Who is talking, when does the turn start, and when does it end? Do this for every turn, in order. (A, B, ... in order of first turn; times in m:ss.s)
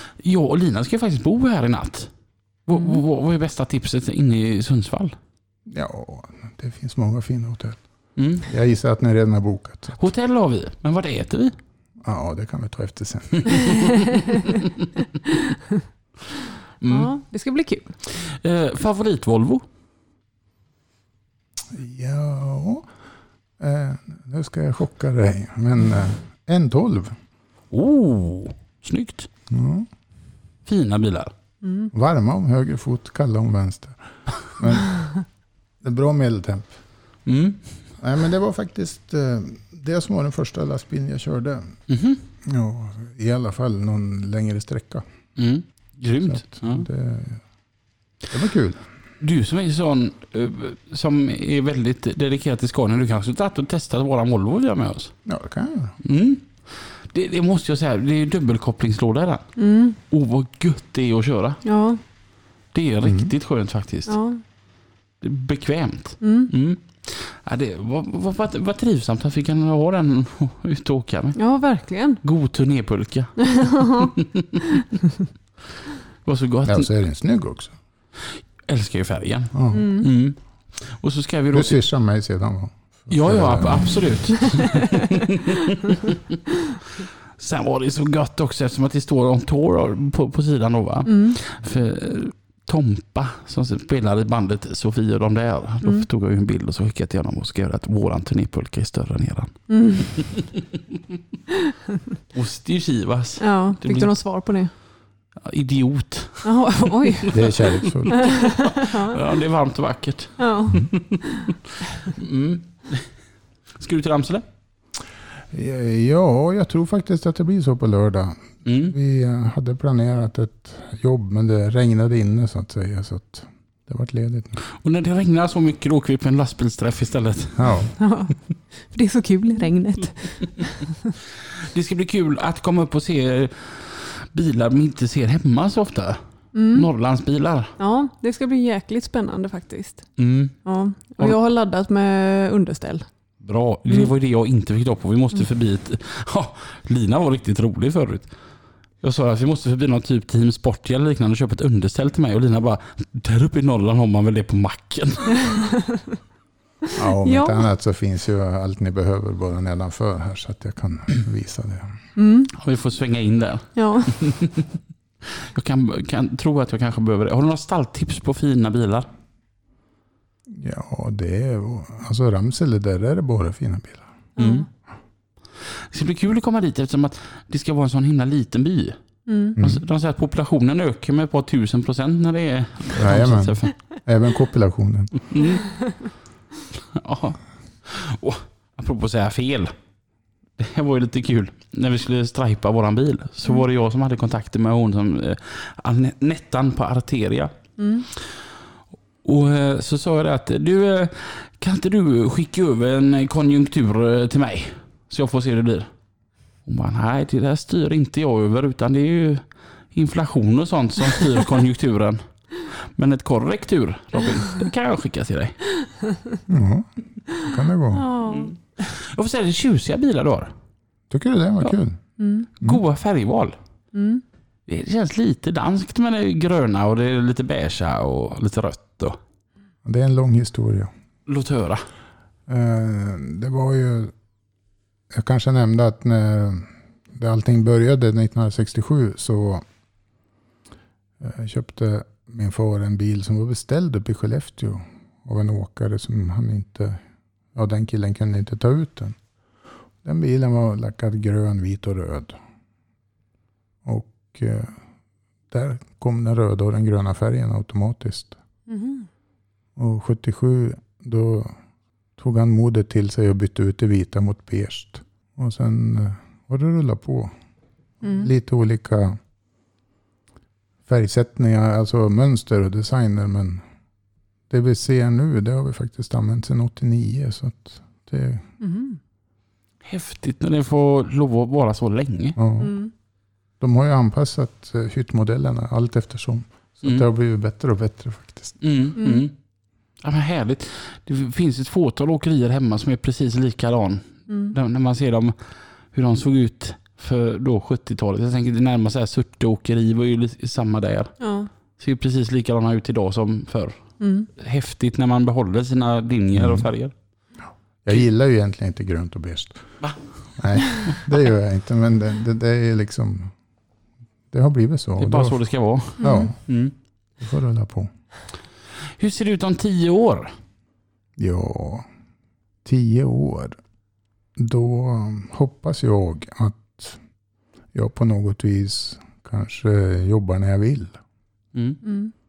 0:00.2-0:02.1 A
0:02.7-0:05.2 A
0:05.7-0:07.8 B
0:08.2-0:08.5 A
0:08.4-0:10.0 B
0:10.0-0:11.6 A
0:12.0-0:13.7 B
0:13.4-0:13.9 A
0:16.8-0:17.1 A
0:16.9-0:18.0 C
0:18.1-0:19.6 A
0:21.7-0:22.9 B
0:23.6-0:27.2 B
0:27.7-0:29.3 A
0:29.5-0:29.9 B
0:30.7-0:31.3 A
0:31.6-0:31.9 C
0:31.9-0:35.1 B
0:35.8-0:36.8 B
0:37.3-0:37.6 A
0:38.0-0:41.8 B
0:41.9-0:42.2 A
0:42.4-0:45.0 B
0:45.4-0:46.8 A
0:46.2-0:47.4 B
0:48.3-0:48.8 B
0:49.2-0:55.1 A
0:55.2-0:56.0 B
0:56.0-0:59.5 A
0:59.6-1:00.0 C
1:00.1-1:01.6 A
1:01.6-1:02.0 C
1:02.7-1:04.2 A
1:03.0-1:03.3 B
1:04.1-1:04.4 C
1:05.2-1:11.4 A
1:06.2-1:06.5 C
1:11.4-1:12.2 C
1:12.2-1:14.5 A
1:13.4-1:14.1 C
1:16.2-1:16.9 A
1:16.6-1:17.8 B
1:18.3-1:21.8 A
1:19.5-1:19.8 B
1:19.7-1:20.1 C
1:21.5-1:24.1 B
1:23.1-1:26.2 A
1:27.4-1:39.6 A
1:31.1-1:31.4 C
1:39.7-1:40.1 C
1:40.2-1:40.4 A
1:42.3-1:44.1 A
1:43.4-1:44.7 C
1:45.4-1:46.5 A
1:46.4-1:47.4 C
1:47.0-1:53.1 A
1:47.3-1:48.3 B
1:48.1-1:49.2 C
1:50.4-1:51.5 C
1:53.8-1:54.4 A
1:55.5-2:04.6 B
1:58.6-1:59.0 A
2:04.8-2:07.8 A
2:07.6-2:07.9 B
2:08.0-2:10.9 C
2:11.6-2:16.2 A
2:16.5-2:16.9 C
2:16.7-2:17.8 A
2:17.8-2:20.1 C
2:20.2-2:20.6 A
2:20.6-2:23.1 C
2:23.4-2:28.3 A
2:29.0-2:35.5 A
2:37.0-2:41.9 B
2:37.2-2:37.7 C
2:42.2-2:42.5 C
2:42.5-2:44.7 A
2:43.8-2:44.1 C
2:45.4-2:49.1 A
2:50.5-2:54.1 B
2:54.4-2:54.7 C
2:54.4-2:54.7 A
2:55.7-2:59.0 A
2:59.3-2:59.6 C
2:59.6-2:59.8 B
2:59.6-3:03.7 A
3:03.0-3:05.2 B
3:05.3-3:05.6 A
3:06.9-3:09.7 A
3:10.6-3:17.5 A
3:17.8-3:18.1 C
3:19.2-3:25.9 A
3:26.6-3:35.6 A
3:36.5-3:38.0 B
3:37.9-3:38.5 C
3:38.3-3:40.5 A
3:41.1-3:42.0 B
3:42.2-3:42.5 C
3:42.6-3:43.6 A
3:43.9-3:44.2 C
3:44.7-3:49.2 A
3:49.8-3:50.9 B
3:51.3-3:51.8 A
3:52.5-3:54.1 B
3:55.1-3:59.6 B
4:01.2-4:07.0 B
4:07.5-4:09.2 B
4:10.0-4:12.4 B
4:13.8-4:14.8 B
4:15.5-4:18.4 B
4:18.7-4:19.1 C
4:19.8-4:21.5 B
4:22.2-4:27.3 B
4:28.0-4:28.3 C
4:28.0-4:29.2 B
4:30.9-4:33.6 B
4:34.5-4:38.5 B
4:38.6-4:39.0 C
4:39.8-4:42.4 A
4:42.4-4:42.7 B
4:42.6-4:42.9 C
4:43.6-4:48.6 B
4:48.6-4:49.3 A
4:49.0-4:49.3 C
4:50.0-4:55.4 A
4:54.3-4:54.6 C
4:55.9-5:01.1 A
5:01.2-5:01.5 C
5:01.8-5:03.8 A
5:04.0-5:04.3 C
5:04.4-5:06.9 A
5:06.3-5:06.7 B
5:07.8-5:09.6 B
5:10.4-5:13.3 B
5:14.3-5:15.4 B
5:15.0-5:16.7 A
5:16.0-5:16.4 B
5:16.0-5:16.3 C
5:17.2-5:17.9 B
5:19.0-5:20.4 A
5:21.2-5:21.9 B
5:22.6-5:23.6 B
5:24.4-5:27.0 B
5:27.7-5:31.0 B
5:31.5-5:31.8 A
5:31.8-5:32.1 C